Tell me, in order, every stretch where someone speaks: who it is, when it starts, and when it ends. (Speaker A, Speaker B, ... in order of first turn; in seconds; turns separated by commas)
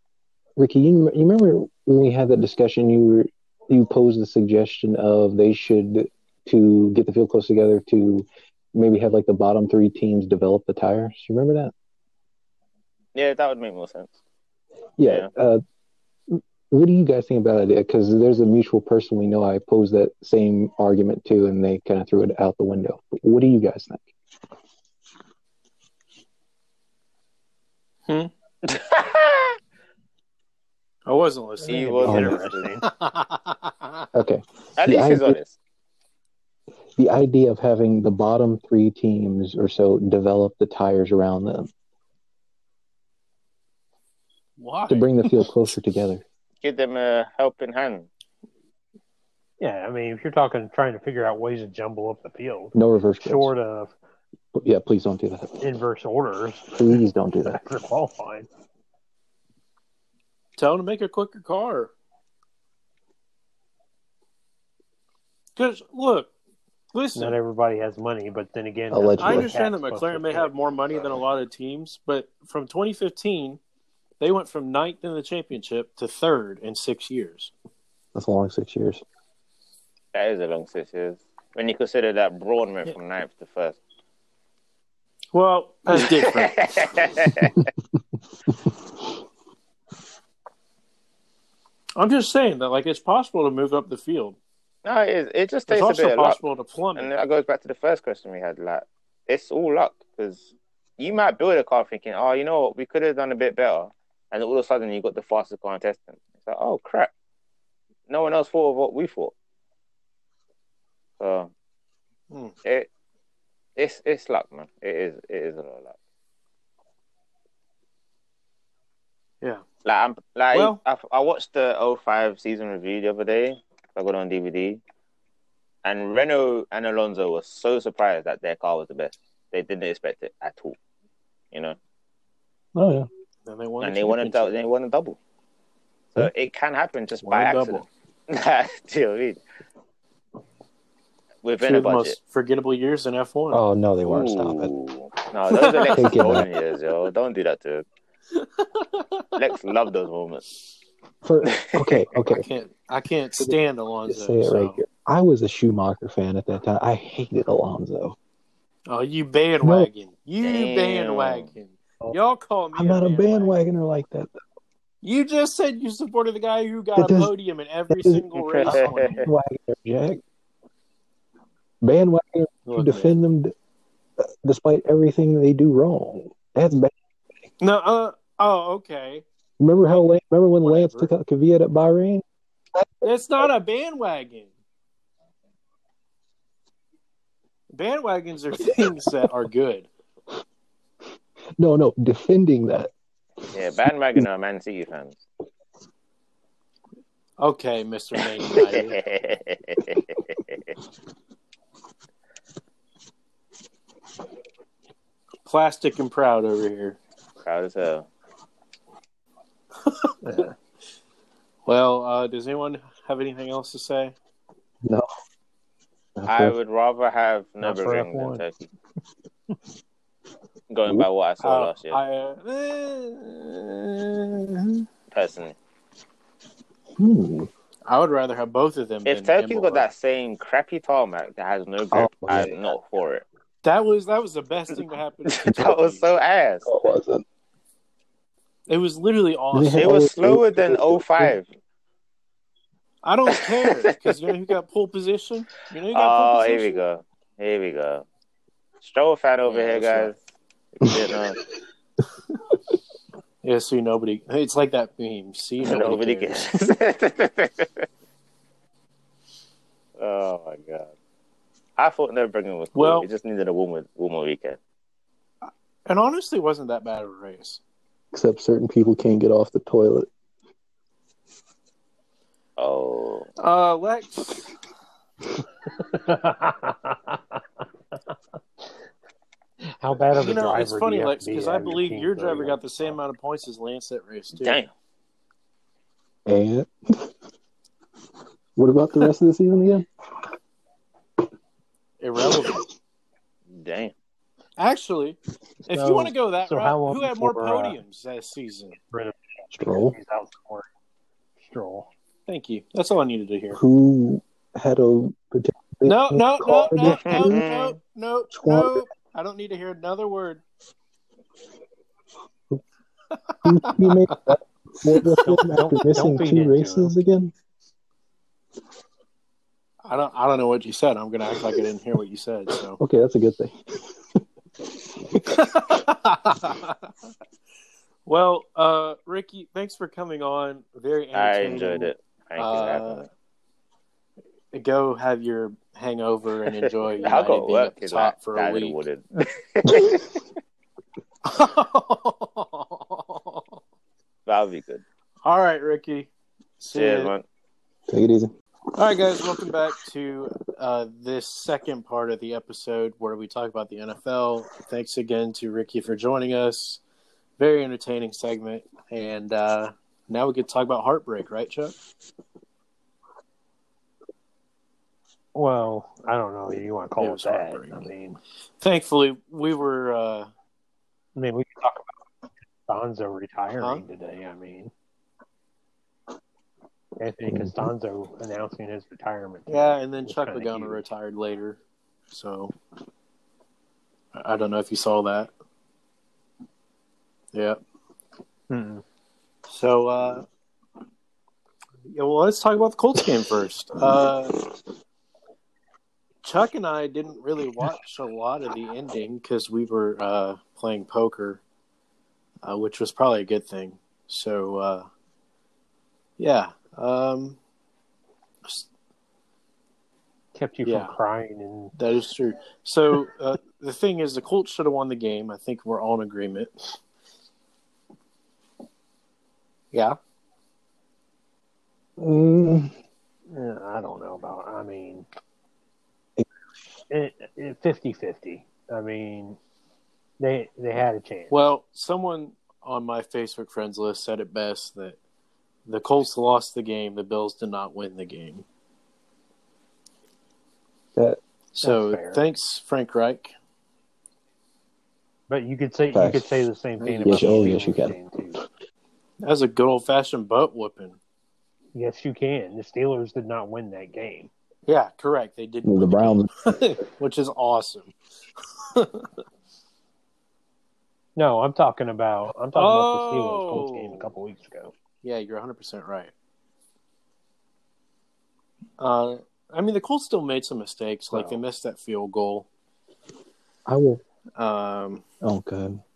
Speaker A: 0.6-11.7, Speaker B: 13.1-14.1, Speaker A: 15.0-15.6, Speaker B: 15.0-15.3, Speaker A: 16.3-24.1, Speaker B: 28.6-29.6, Speaker C: 31.1-34.0, Speaker B: 31.7-32.8, Speaker D: 31.7-32.8, Speaker A: 32.0-32.4, Speaker A: 34.1-35.4, Speaker B: 34.8-35.5, Speaker A: 37.0-41.7, Speaker C: 44.6-45.5, Speaker A: 44.9-46.2, Speaker B: 46.6-48.1, Speaker D: 49.6-53.9, Speaker A: 52.7-53.5, Speaker A: 54.5-55.7, Speaker D: 55.6-56.8, Speaker A: 56.7-57.6, Speaker D: 57.5-58.5, Speaker C: 60.6-61.9, Speaker C: 65.5-66.3, Speaker C: 66.9-67.4, Speaker D: 67.1-70.5, Speaker A: 68.9-69.5, Speaker C: 69.2-73.6, Speaker C: 74.2-77.5, Speaker A: 78.1-79.0, Speaker B: 80.1-83.8, Speaker C: 85.3-86.6, Speaker B: 85.9-87.6, Speaker C: 92.0-94.4, Speaker B: 94.8-96.4, Speaker C: 95.7-97.1, Speaker B: 97.0-107.1, Speaker B: 108.1-109.3, Speaker B: 111.2-111.5, Speaker C: 112.3-112.5, Speaker B: 113.8-115.9, Speaker B: 119.8-124.8, Speaker C: 120.5-120.8, Speaker B: 125.8-130.8, Speaker B: 131.5-131.8, Speaker A: 132.7-133.1, Speaker C: 133.4-134.5, Speaker B: 133.8-135.2, Speaker B: 136.1-139.4, Speaker C: 137.2-137.9, Speaker B: 141.4-142.2, Speaker C: 141.6-143.6, Speaker A: 143.5-144.7, Speaker B: 144.1-147.8, Speaker C: 145.5-146.0, Speaker A: 145.9-146.5, Speaker C: 148.3-149.2, Speaker B: 149.3-150.4, Speaker A: 151.2-152.4, Speaker B: 151.4-152.0, Speaker C: 152.1-154.8, Speaker A: 154.1-158.2, Speaker C: 158.9-163.6, Speaker A: 159.6-159.9, Speaker B: 160.4-161.5, Speaker A: 162.7-164.3, Speaker C: 165.0-169.3, Speaker A: 166.9-167.3, Speaker A: 167.9-170.2, Speaker B: 168.4-169.2, Speaker A: 171.8-173.5, Speaker C: 172.7-173.2, Speaker A: 174.2-176.9, Speaker C: 177.6-179.2, Speaker A: 179.6-182.2, Speaker C: 180.6-181.1, Speaker A: 182.7-183.1, Speaker C: 183.0-184.5, Speaker C: 187.7-189.9, Speaker A: 191.6-192.9, Speaker B: 193.5-195.2, Speaker C: 197.4-199.0, Speaker B: 198.5-200.7, Speaker C: 205.4-207.0, Speaker B: 207.4-208.1, Speaker C: 209.9-210.5, Speaker C: 211.7-214.1, Speaker A: 214.8-215.1, Speaker A: 216.2-216.6, Speaker B: 216.3-218.7, Speaker D: 217.6-218.4, Speaker B: 220.7-222.0, Speaker C: 221.4-224.8, Speaker B: 225.1-225.6, Speaker A: 227.0-227.5, Speaker C: 227.8-229.9, Speaker B: 229.1-233.2, Speaker A: 231.9-232.6, Speaker C: 233.6-236.0, Speaker B: 235.2-236.7, Speaker A: 236.6-237.2, Speaker C: 238.7-240.0, Speaker A: 239.5-241.4, Speaker B: 239.7-241.4, Speaker C: 243.0-246.8, Speaker B: 243.3-244.1, Speaker B: 245.9-248.0, Speaker B: 248.8-250.2, Speaker C: 249.4-250.1, Speaker B: 250.8-251.4, Speaker C: 253.4-256.4, Speaker B: 255.6-257.9, Speaker B: 260.0-260.9, Speaker B: 261.8-264.6, Speaker C: 262.7-263.1, Speaker C: 265.4-267.6, Speaker A: 268.1-270.1, Speaker B: 272.6-273.3, Speaker C: 273.4-274.4, Speaker D: 275.8-277.4, Speaker D: 279.6-283.0, Speaker C: 280.1-284.6, Speaker B: 284.4-284.7, Speaker A: 286.2-287.1, Speaker A: 288.6-289.9, Speaker C: 292.0-292.6, Speaker B: 293.5-293.9, Speaker C: 294.6-298.8, Speaker D: 295.7-297.8, Speaker D: 298.9-300.7, Speaker A: 299.5-300.0, Speaker D: 301.4-301.9, Speaker C: 302.3-303.6, Speaker A: 303.5-307.4, Speaker C: 305.8-310.4, Speaker B: 306.8-307.8, Speaker A: 308.3-308.8, Speaker C: 313.3-314.1, Speaker A: 313.4-317.3, Speaker D: 315.2-316.9, Speaker C: 319.8-322.8, Speaker A: 322.8-324.2, Speaker A: 325.1-325.4, Speaker C: 325.3-326.9, Speaker C: 328.1-333.1, Speaker B: 331.1-333.1, Speaker C: 334.5-338.8, Speaker B: 337.0-340.2, Speaker C: 341.2-343.6, Speaker B: 344.2-344.8, Speaker C: 345.2-347.1, Speaker B: 346.7-347.2, Speaker A: 347.9-348.3, Speaker C: 348.7-356.8, Speaker C: 357.4-361.8, Speaker D: 365.3-368.2, Speaker C: 367.0-367.9, Speaker C: 368.6-370.3, Speaker D: 371.1-372.0, Speaker D: 372.7-374.7, Speaker D: 377.0-380.8, Speaker A: 377.2-377.7, Speaker C: 379.5-381.6, Speaker C: 382.1-382.5, Speaker C: 384.1-385.3, Speaker C: 387.3-387.6, Speaker D: 388.5-388.8, Speaker C: 389.5-390.2, Speaker C: 391.9-394.4, Speaker C: 396.2-401.4, Speaker C: 402.4-404.9, Speaker C: 406.2-407.4, Speaker D: 410.3-411.7, Speaker C: 410.6-410.9, Speaker C: 411.8-416.8, Speaker C: 419.7-420.0, Speaker A: 422.0-422.7, Speaker D: 423.3-425.1, Speaker D: 426.9-429.4, Speaker D: 430.2-431.4, Speaker C: 431.3-435.0, Speaker C: 435.7-438.4, Speaker C: 441.5-443.3, Speaker D: 441.6-442.2, Speaker D: 445.3-448.4, Speaker A: 445.9-446.4, Speaker C: 446.8-447.5, Speaker A: 447.0-447.9, Speaker C: 449.2-451.0, Speaker D: 451.7-454.3, Speaker C: 454.7-457.9, Speaker A: 455.6-456.5, Speaker C: 458.7-459.1, Speaker D: 461.1-464.7, Speaker C: 462.5-464.1, Speaker C: 465.0-466.1, Speaker C: 468.8-472.4, Speaker D: 471.1-471.4, Speaker A: 473.6-474.0, Speaker C: 474.4-475.0, Speaker A: 475.2-475.8